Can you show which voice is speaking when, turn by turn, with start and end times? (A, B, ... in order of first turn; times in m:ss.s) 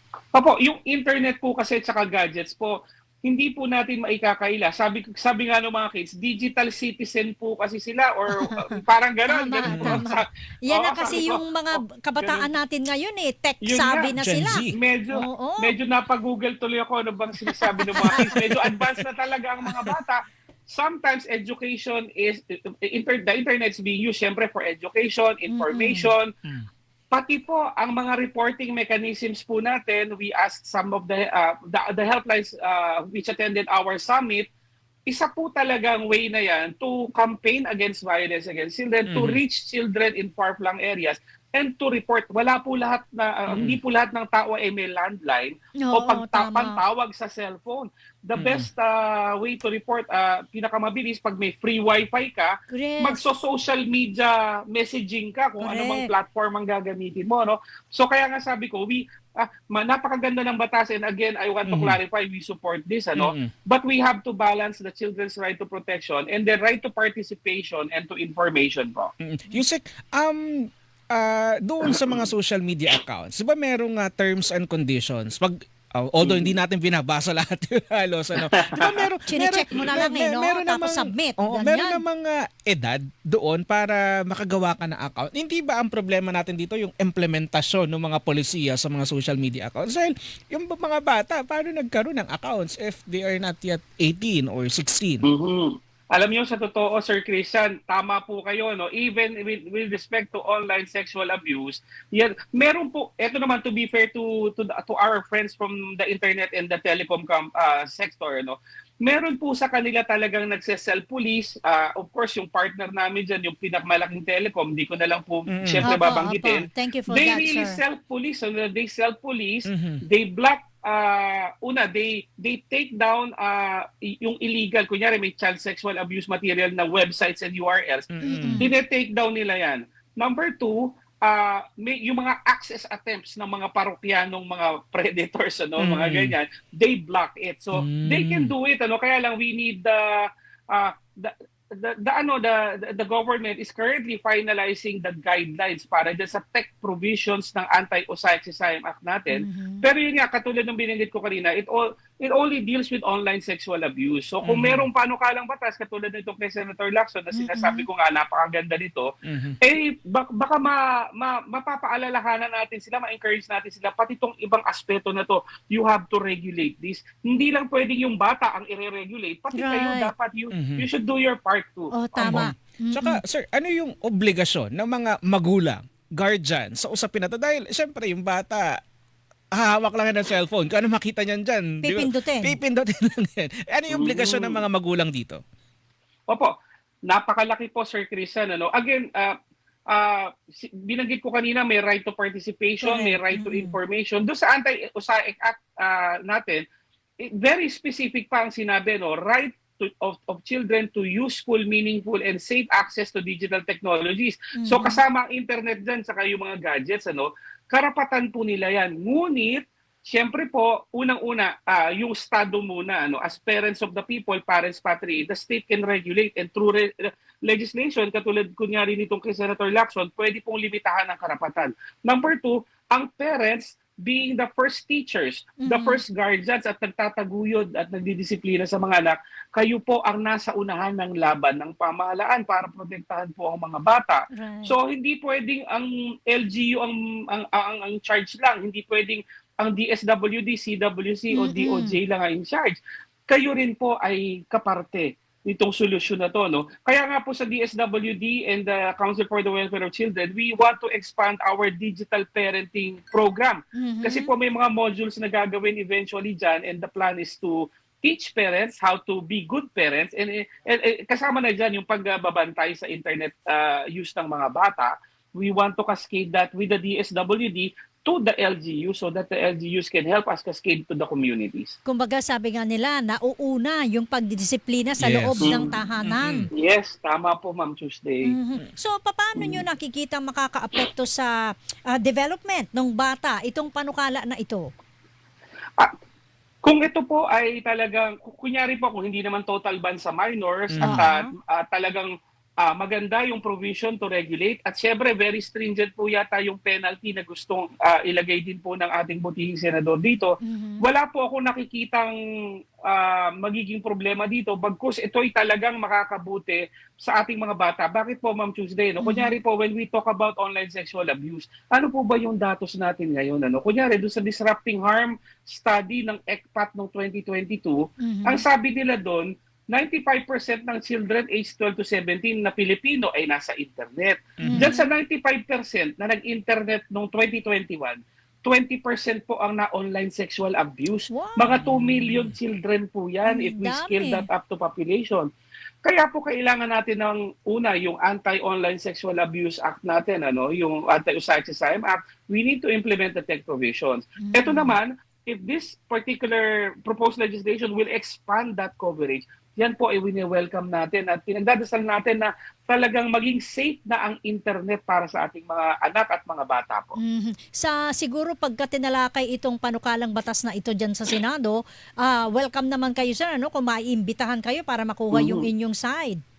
0:00.3-0:12.5 A
0:09.3-0:14.6 B
0:09.7-0:10.0 C
0:13.6-0:26.3 A
0:14.2-0:14.7 C
0:15.2-0:15.7 B
0:18.0-0:18.3 C
0:25.5-0:26.1 B
0:27.1-0:34.5 A
0:35.1-1:09.1 A
0:39.1-0:39.4 C
0:43.5-0:43.8 C
0:45.8-0:46.8 B
0:48.4-0:48.7 C
0:52.7-0:53.4 B
0:55.6-0:56.1 B
1:01.7-1:02.0 C
1:03.2-1:03.5 C
1:09.2-1:35.2 C
1:11.8-1:12.3 A
1:16.2-1:16.5 A
1:18.4-1:19.1 A
1:19.3-1:22.0 B
1:35.2-2:52.5 A
1:55.5-1:55.9 C
1:55.8-1:57.8 B
1:59.7-2:00.0 C
2:08.1-2:08.7 C
2:08.2-2:08.7 B
2:15.8-2:16.4 C
2:17.8-2:18.5 C
2:29.3-2:29.8 B
2:34.4-2:34.8 C
2:37.3-2:37.9 B
2:39.3-2:39.6 C
2:49.5-2:50.1 B
2:50.5-2:50.9 C
2:51.9-2:53.2 B
2:52.2-2:58.8 C
2:59.6-3:05.4 C
3:01.8-3:02.6 B
3:03.9-3:04.6 A
3:07.1-3:09.4 A
3:09.9-3:16.6 A
3:12.8-3:13.8 B
3:17.2-4:31.8 A
3:24.6-3:25.0 B
3:45.6-3:46.0 B
3:54.3-3:54.7 B
4:01.3-4:02.0 B
4:13.8-4:14.3 B
4:31.9-4:36.5 B
4:35.0-4:36.5 C
4:35.4-4:35.7 A
4:36.5-4:38.3 A
4:38.2-4:41.3 B
4:39.4-4:39.6 A
4:41.9-4:44.7 B
4:46.6-5:02.2 A
4:50.7-4:51.0 C
4:50.8-4:51.3 B
5:00.4-5:00.8 B
5:02.9-5:35.3 A
5:09.0-5:09.3 B
5:18.0-5:18.4 B
5:24.4-5:24.7 C
5:24.5-5:24.9 B
5:31.1-5:31.5 B
5:31.6-5:32.3 C
5:33.3-5:34.2 B
5:35.8-5:57.0 A
5:44.2-5:44.8 B
5:57.0-6:06.2 B
6:05.1-6:05.5 A